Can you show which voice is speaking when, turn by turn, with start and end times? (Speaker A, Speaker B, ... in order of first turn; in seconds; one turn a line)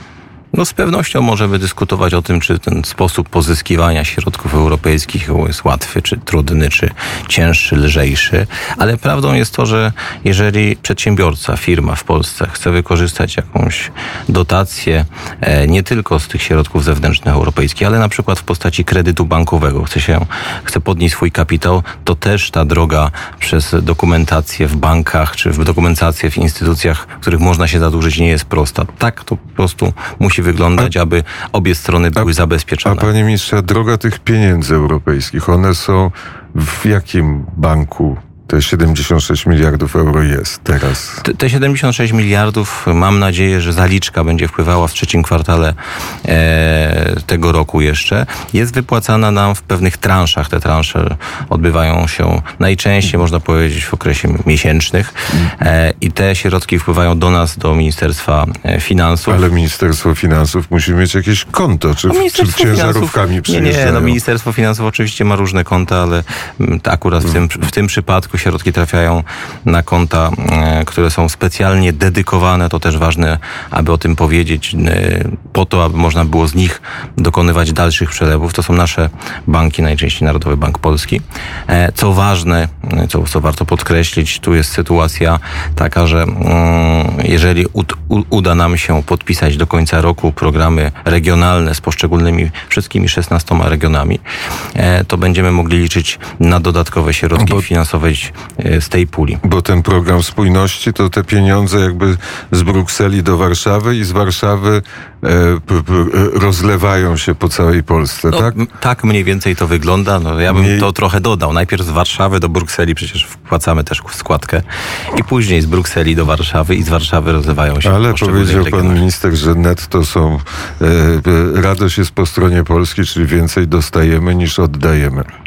Speaker A: 0.5-33.1
Speaker B: 32.8-41.2
Speaker A: 41.2-59.5
Speaker B: 59.3-64.2
Speaker A: 62.0-94.2
Speaker A: 94.7-99.4
Speaker B: 97.4-97.6
Speaker B: 99.4-108.5
Speaker A: 108.3-119.0
Speaker B: 110.5-110.9
Speaker B: 117.8-125.3